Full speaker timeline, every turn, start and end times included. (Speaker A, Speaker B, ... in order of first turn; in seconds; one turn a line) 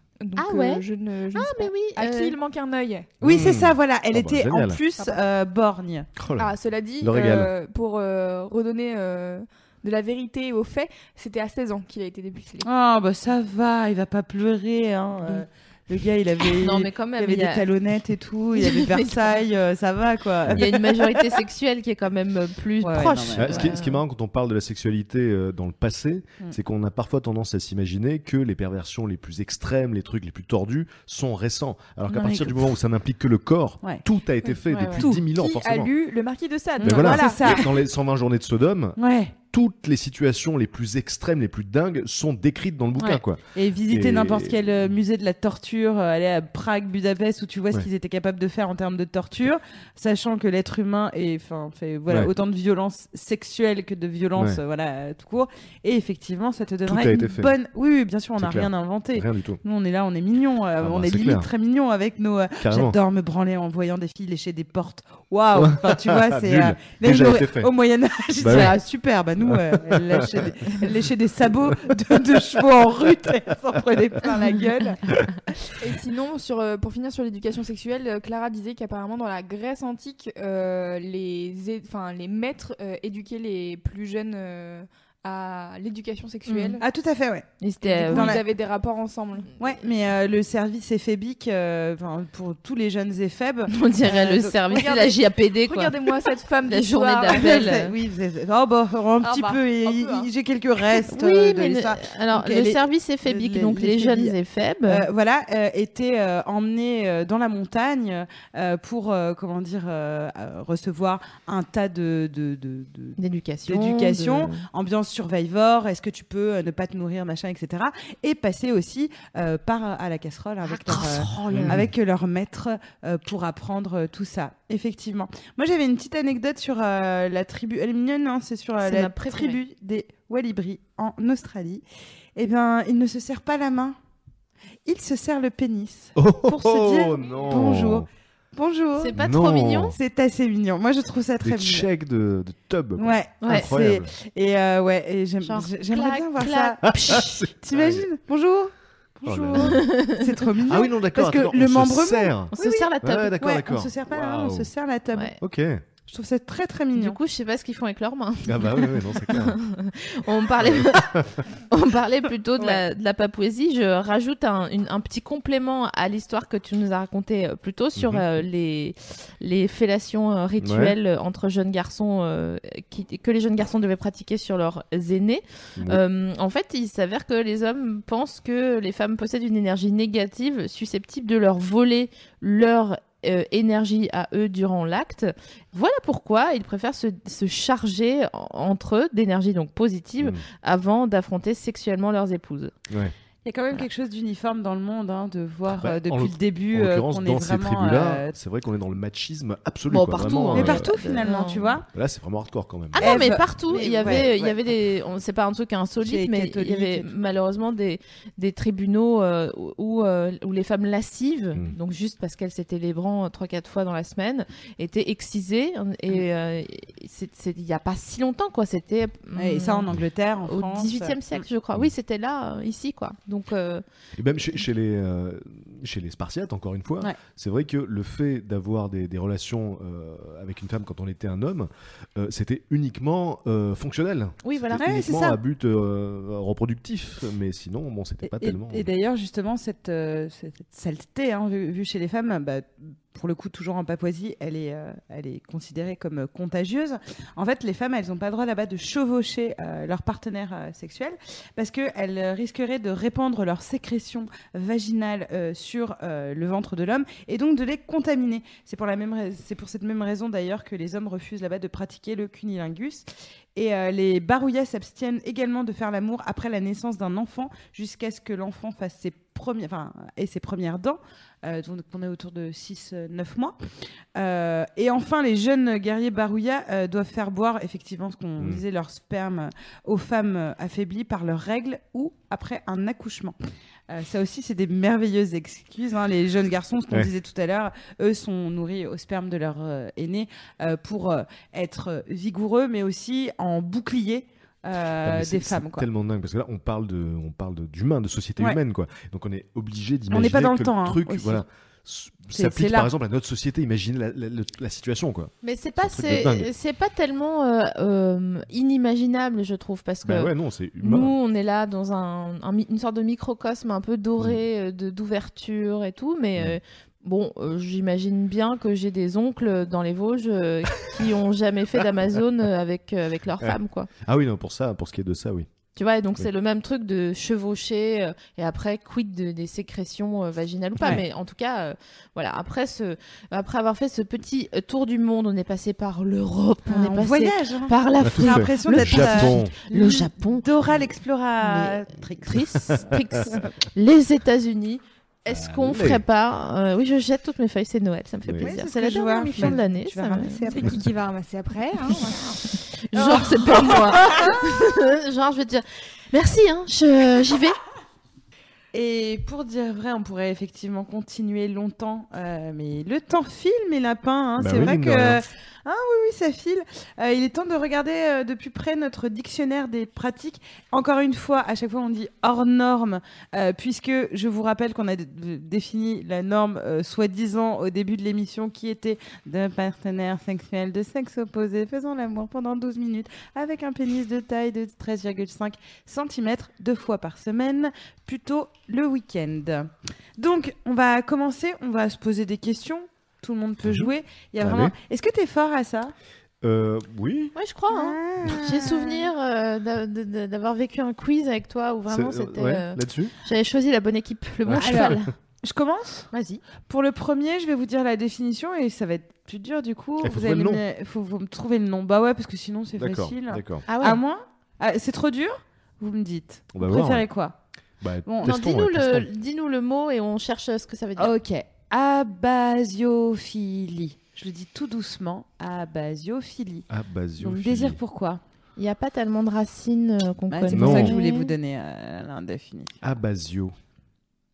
Speaker A: 0.2-3.1
Speaker B: 0.4-0.8
Speaker B: 1.3-2.4
Speaker C: 3.2-4.8
Speaker D: 3.2-6.1
Speaker C: 6.2-7.5
Speaker A: 6.4-12.7
Speaker D: 12.6-21.2
Speaker B: 16.6-17.6
Speaker B: 18.6-19.2
Speaker B: 20.5-24.0
Speaker D: 22.8-23.7
Speaker C: 23.3-35.9
Speaker D: 32.1-32.6
Speaker B: 34.7-35.0
Speaker A: 35.3-37.5
Speaker D: 36.8-37.6
Speaker C: 36.8-39.0
Speaker D: 39.0-39.3
Speaker C: 39.5-44.9
Speaker D: 43.5-75.0
Speaker C: 54.3-54.6
Speaker C: 56.9-57.5
Speaker C: 58.4-59.6
Speaker C: 60.8-61.5
Speaker C: 62.6-63.0
Speaker C: 65.5-67.7
Speaker C: 68.4-68.8
Speaker C: 69.4-70.5
Speaker A: 75.8-86.8
Speaker B: 86.5-86.8
Speaker D: 86.8-87.5
Speaker B: 87.6-88.4
Speaker A: 87.8-89.5
Speaker D: 88.0-88.4
Speaker D: 89.6-95.0
Speaker B: 93.7-96.1
Speaker A: 94.7-97.8
Speaker B: 96.6-97.9
Speaker D: 97.3-104.3
Speaker A: 99.2-100.3
Speaker B: 101.1-105.0
Speaker D: 104.9-131.8
Speaker B: 113.2-114.6
Speaker B: 120.6-121.8
Speaker C: 121.5-121.9
Speaker B: 128.8-129.6
Speaker D: 132.3-133.9
Speaker D: 134.8-139.2
Speaker C: 136.2-138.1
Speaker B: 139.0-139.9
Speaker C: 139.1-140.0
Speaker D: 139.9-141.8
Speaker C: 141.4-144.1
Speaker D: 143.0-155.3
Speaker B: 143.4-143.7
Speaker B: 145.4-147.4
Speaker C: 146.9-148.1
Speaker C: 149.2-149.8
Speaker B: 149.6-150.2
Speaker C: 150.6-154.7
Speaker B: 152.5-153.3
Speaker C: 155.4-155.8
Speaker D: 156.1-157.2
Speaker B: 156.9-192.7
Speaker C: 158.4-159.6
Speaker C: 160.6-161.4
Speaker C: 168.0-168.2
Speaker C: 170.6-170.9
Speaker C: 192.9-193.1
Speaker D: 193.4-198.3
Speaker C: 195.7-200.9
Speaker B: 199.9-201.7
Speaker D: 200.5-201.8
Speaker C: 201.9-203.4
Speaker B: 202.9-219.8
Speaker D: 203.0-204.6
Speaker C: 204.0-204.3
Speaker D: 206.0-207.1
Speaker D: 219.3-221.4
Speaker B: 220.4-223.8
Speaker C: 224.2-238.9
Speaker B: 234.4-234.8
Speaker D: 234.8-235.4
Speaker D: 238.2-273.6
Speaker D: 274.1-283.4
Speaker D: 283.9-295.9
Speaker C: 295.0-306.5
Speaker D: 300.1-301.4
Speaker D: 302.3-302.9
Speaker B: 305.4-323.9
Speaker C: 310.0-311.1
Speaker C: 323.4-325.5
Speaker B: 325.8-340.5
Speaker D: 336.7-342.8
Speaker C: 338.0-339.5
Speaker B: 341.4-350.5
Speaker C: 345.3-346.0
Speaker C: 348.2-348.5
Speaker D: 348.4-350.8
Speaker A: 350.5-352.4
Speaker B: 352.9-357.6
Speaker D: 353.0-354.4
Speaker D: 358.7-395.9
Speaker C: 364.4-365.2
Speaker C: 393.6-394.7
Speaker C: 396.4-397.3
Speaker B: 397.4-405.1
Speaker D: 397.7-399.1
Speaker C: 401.9-403.1
Speaker C: 404.4-405.0
Speaker D: 404.6-406.1
Speaker B: 406.1-406.4
Speaker D: 406.6-417.4
Speaker C: 410.0-410.6
Speaker C: 412.8-413.6
Speaker B: 413.7-414.0
Speaker C: 416.5-417.1
Speaker C: 417.8-419.1
Speaker D: 418.1-418.4
Speaker B: 418.2-421.1
Speaker D: 421.0-426.7
Speaker C: 426.7-427.8
Speaker D: 427.2-428.2
Speaker B: 428.6-431.3
Speaker D: 430.3-432.8
Speaker C: 430.5-431.0
Speaker C: 432.8-433.5